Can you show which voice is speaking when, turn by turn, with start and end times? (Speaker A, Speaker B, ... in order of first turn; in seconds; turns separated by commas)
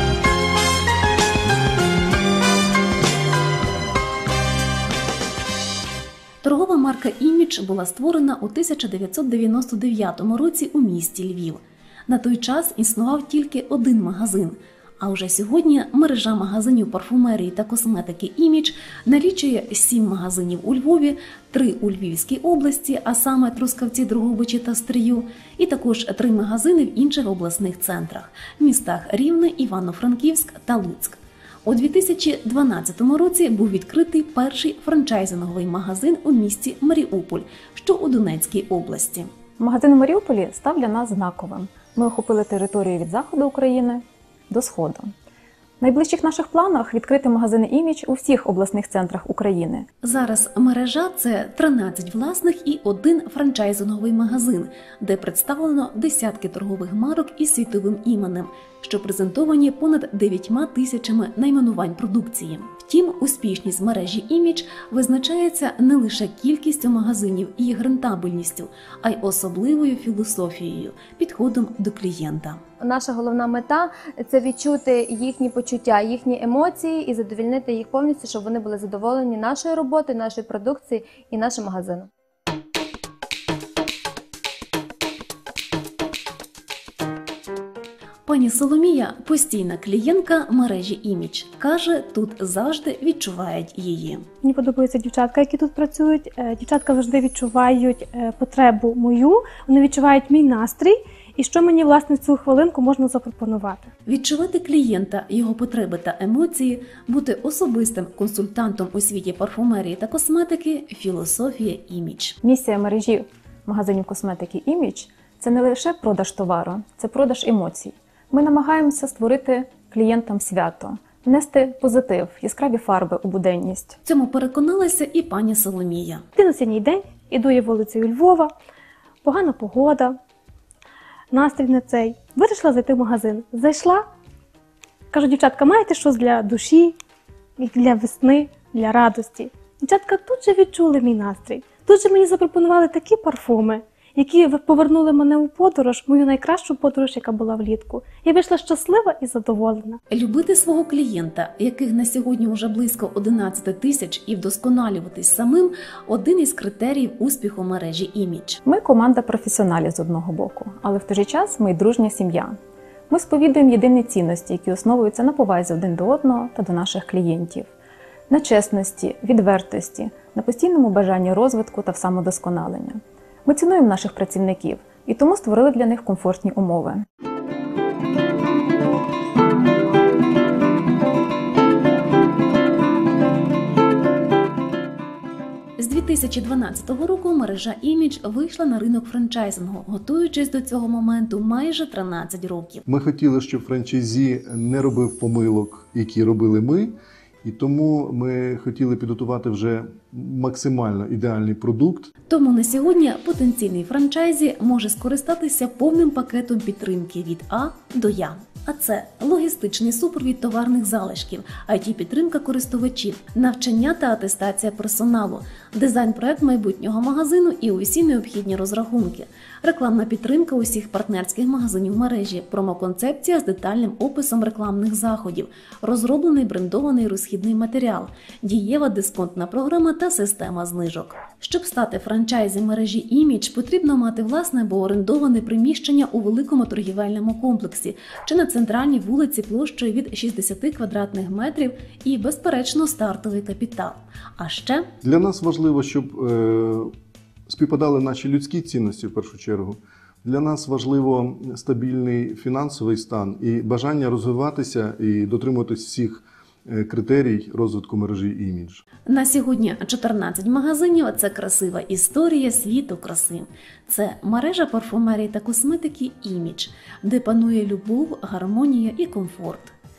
Speaker A: 6.4-39.3, Speaker B: 39.6-45.1, Speaker B: 45.8-49.9, Speaker A: 50.0-72.6, Speaker C: 72.8-82.1, Speaker A: 88.3-94.3, Speaker D: 94.4-103.9, Speaker A: 104.1-112.4, Speaker B: 112.4-124.0, Speaker A: 124.0-126.2, Speaker D: 126.4-128.5, Speaker D: 129.2-130.2, Speaker D: 131.3-134.0, Speaker D: 135.1-137.0, Speaker D: 137.6-150.0, Speaker A: 150.1-158.6, Speaker B: 158.7-162.6, Speaker B: 163.1-167.7, Speaker B: 168.3-177.1, Speaker A: 185.8-192.8, Speaker E: 192.9-202.1, Speaker A: 202.3-244.9, Speaker E: 245.0-246.9, Speaker E: 247.5-258.8, Speaker A: 259.1-269.7